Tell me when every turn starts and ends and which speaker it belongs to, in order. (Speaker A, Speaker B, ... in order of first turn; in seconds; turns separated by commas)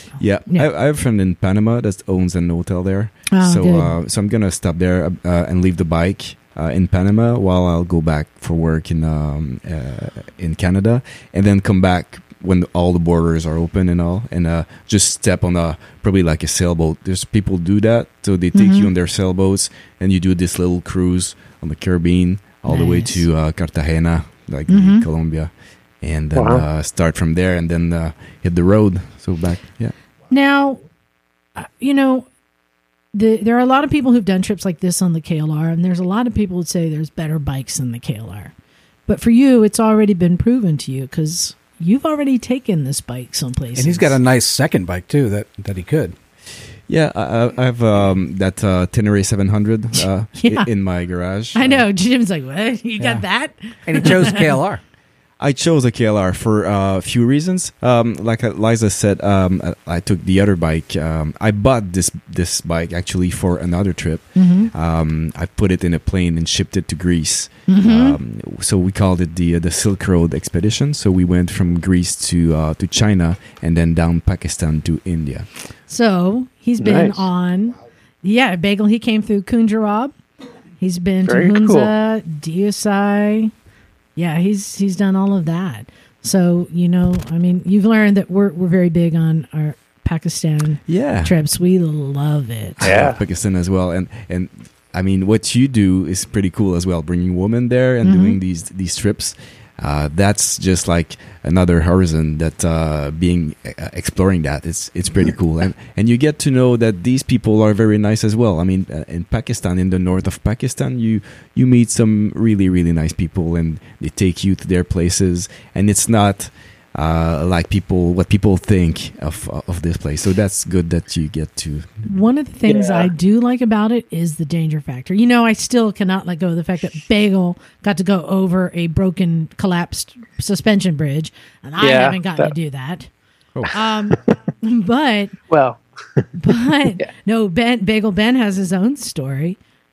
Speaker A: 0.2-25.5, Speaker B: 3.3-3.9, Speaker B: 18.5-18.9, Speaker B: 22.7-23.2, Speaker B: 24.7-25.1, Speaker A: 26.0-29.9, Speaker C: 26.3-26.6, Speaker B: 30.3-30.8, Speaker B: 31.6-32.3, Speaker B: 33.1-38.5, Speaker B: 39.1-44.2, Speaker D: 43.7-46.1, Speaker A: 46.9-51.8, Speaker B: 50.0-50.7, Speaker B: 51.5-54.6, Speaker D: 53.0-53.2, Speaker D: 53.9-54.8, Speaker A: 55.4-75.5, Speaker B: 64.3-64.7, Speaker B: 67.7-68.2, Speaker B: 75.9-80.1, Speaker C: 76.8-77.3, Speaker B: 80.8-83.5, Speaker C: 81.2-81.9, Speaker B: 84.2-93.0, Speaker A: 90.9-91.3, Speaker A: 92.8-121.9, Speaker C: 92.8-93.2, Speaker B: 98.0-98.4, Speaker B: 122.0-133.1, Speaker C: 122.7-123.1, Speaker C: 131.8-132.5, Speaker B: 133.7-135.4, Speaker C: 135.5-136.2, Speaker B: 136.4-139.6